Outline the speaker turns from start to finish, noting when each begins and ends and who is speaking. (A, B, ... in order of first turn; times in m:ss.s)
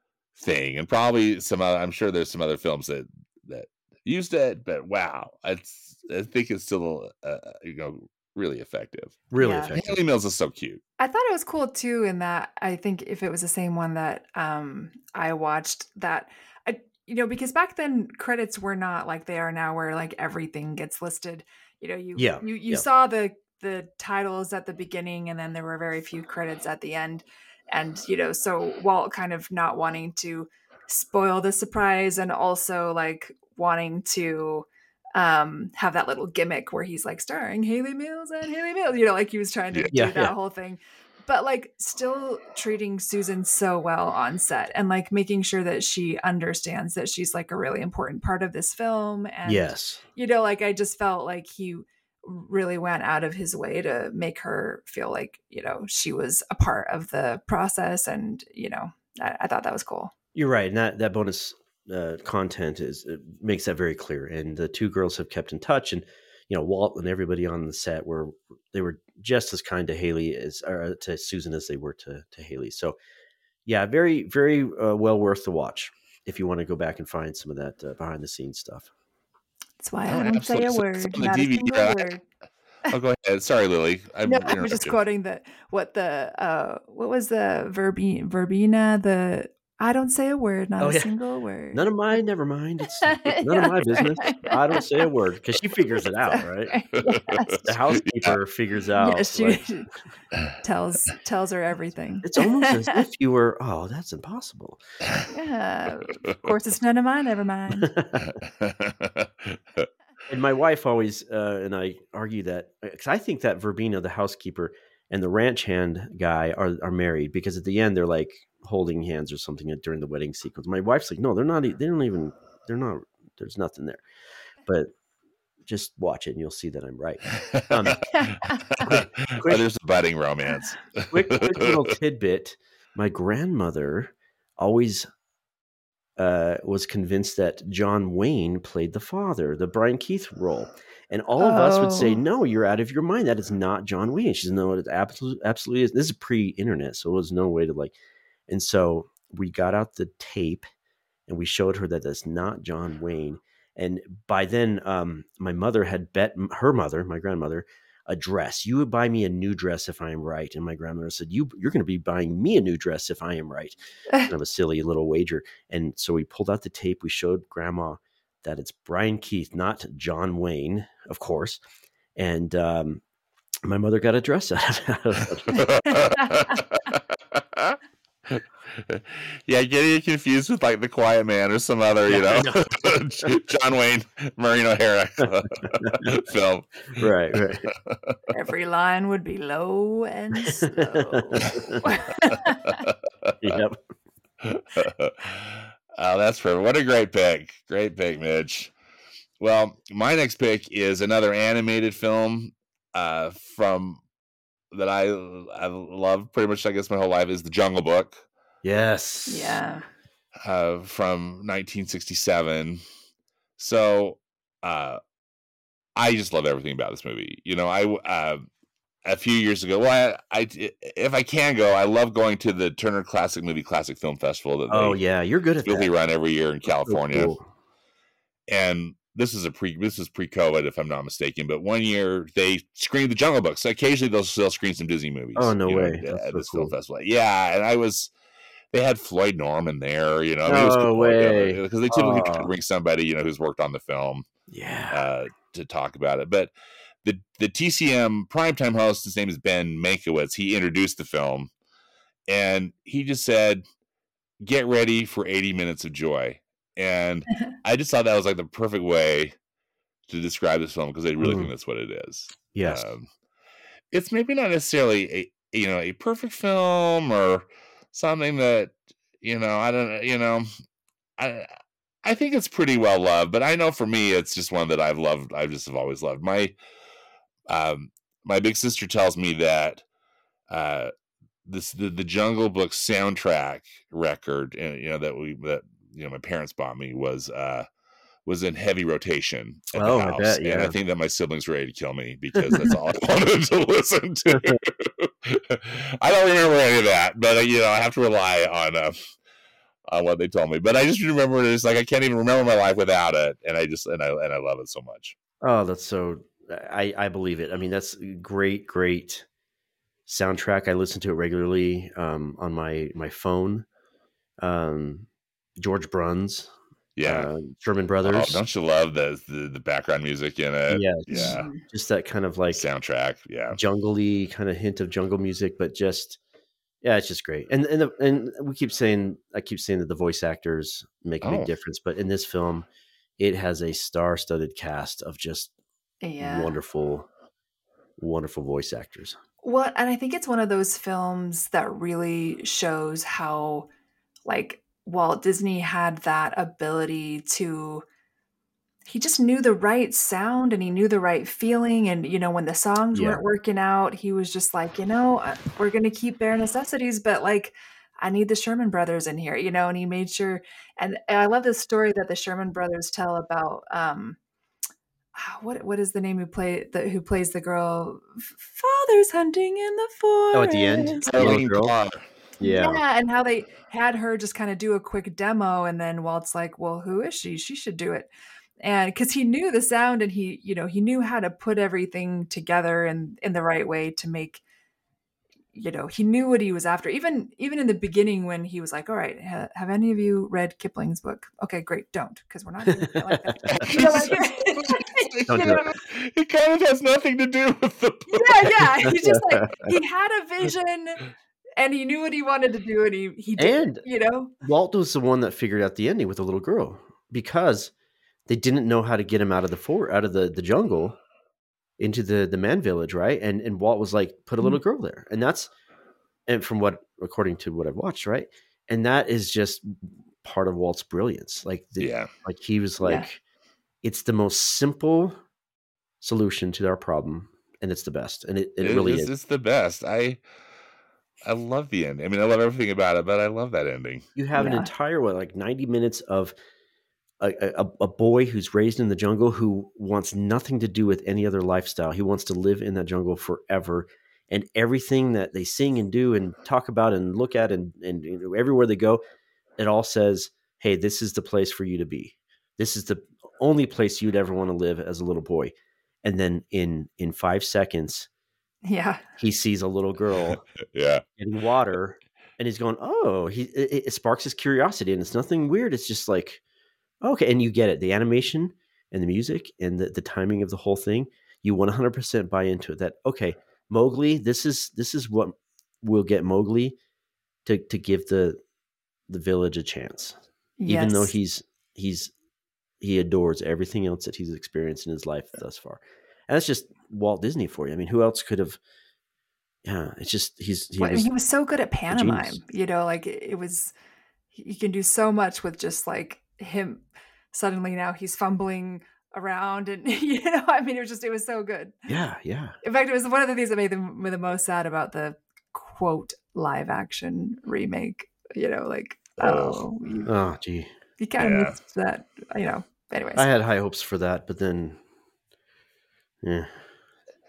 0:00.4-0:10.8 A
0:09.3-0:10.0 B
0:09.4-0:09.8 C
0:11.0-1:00.1 C
0:22.2-0:22.8 B
0:39.9-0:40.3 B
0:49.5-0:50.0 B
1:00.4-1:13.0 B
1:13.7-1:18.9 B
1:19.8-1:22.2 C
1:20.1-1:22.1 A
1:22.9-1:25.0 A
1:24.2-1:31.9 C
1:30.8-1:31.1 B
1:31.7-1:36.8 B
1:33.0-1:35.1 C
1:36.2-1:37.7 C
1:37.0-1:38.4 A
1:37.6-1:39.7 B
1:39.0-1:39.9 C
1:40.6-1:43.0 C
1:42.2-1:44.8 B
1:45.3-1:47.9 C
1:47.8-1:48.3 B
1:48.2-1:49.9 A
1:50.3-2:04.0 B
2:05.6-2:08.0 B
2:07.4-2:12.0 A
2:08.8-2:09.6 B
2:11.1-2:15.1 B
2:16.2-2:28.0 B
2:21.4-2:22.2 C
2:28.5-2:30.6 B
2:31.3-2:51.6 B
2:52.2-2:53.0 B
2:53.6-2:55.7 B
2:55.5-3:07.1 A
3:02.1-3:02.7 B
3:05.8-3:06.0 B
3:07.0-3:07.7 B
3:07.7-3:08.2 A
3:08.3-3:12.8 C
3:10.6-3:11.8 B
3:12.2-3:13.6 A
3:13.4-3:13.8 B
3:14.4-3:18.7 A
3:19.4-3:24.0 A
3:24.7-3:28.2 A
3:28.6-3:29.6 B
3:29.3-3:29.9 C
3:30.4-3:32.8 A
3:33.6-3:35.0 A
3:36.0-3:38.5 A
3:39.0-3:45.0 A
3:44.7-3:45.9 B
3:45.6-3:47.4 A
3:46.8-3:47.5 B
3:48.5-3:58.1 A
3:55.4-3:56.7 B
3:58.7-4:04.3 A
4:00.5-4:02.5 B
4:04.5-4:05.0 B
4:04.9-4:06.5 A
4:07.0-4:11.5 A
4:12.3-4:13.6 A
4:14.4-4:19.4 A
4:20.1-4:23.1 A
4:21.2-4:21.5 B
4:22.5-4:22.8 B
4:23.9-4:30.5 A
4:31.2-4:36.6 A
4:37.5-4:39.8 A
4:40.5-4:40.9 A
4:41.5-4:47.7 A
4:48.3-4:59.0 A
4:49.7-4:50.8 B
4:59.9-5:05.2 A
5:05.4-5:09.3 B
5:10.1-5:13.7 B
5:14.4-5:16.5 B
5:17.0-5:17.3 A
5:17.0-5:18.4 B
5:18.0-5:21.5 A
5:20.7-5:22.6 B
5:21.1-5:21.6 C
5:22.5-5:23.6 A
5:23.5-5:26.2 B
5:26.8-5:32.7 B
5:31.2-5:31.5 A
5:33.2-5:35.5 B
5:36.0-5:36.6 C
5:36.2-5:37.1 B
5:38.0-5:39.2 B
5:39.4-5:43.7 C
5:44.2-5:47.8 C
5:48.9-6:04.2 C
5:52.9-5:53.2 B
6:05.2-6:11.3 C
6:10.3-6:11.7 B
6:11.1-6:12.1 A
6:12.4-6:12.8 B
6:12.4-6:18.1 C
6:18.6-6:24.4 C
6:25.6-6:35.7 C
6:32.8-6:34.1 B
6:33.5-6:38.7 A
6:35.3-6:35.6 B
6:38.1-6:41.0 C
6:38.8-6:39.7 B
6:41.6-6:44.3 C
6:43.4-6:43.8 B
6:44.4-6:47.7 B
6:48.3-6:51.0 B
6:51.8-6:55.5 B
6:56.3-7:03.2 B
7:01.8-7:02.1 A
7:02.8-7:03.1 C
7:03.8-7:05.2 B
7:06.0-7:09.1 B
7:08.6-7:10.2 A
7:11.2-7:14.1 A
7:14.2-7:16.3 B
7:14.3-7:14.7 C
7:17.2-7:29.0 B
7:29.6-7:38.1 B
7:38.6-7:39.0 C
7:39.2-7:40.4 B
7:40.3-7:41.0 A
7:41.2-7:46.4 B
7:47.0-7:56.8 B
7:57.5-7:58.4 B
7:59.1-8:02.1 B
8:00.6-8:01.1 C
8:02.8-8:08.6 B
8:09.6-8:11.1 B
8:10.8-8:13.7 C
8:11.9-8:12.4 B
8:14.4-8:21.8 C
8:21.9-8:22.6 B
8:22.6-8:30.1 C
8:29.2-8:29.6 A
8:30.1-8:30.7 B
8:31.0-8:33.3 C
8:31.2-8:31.6 A
8:33.2-8:34.8 B
8:36.2-8:36.6 B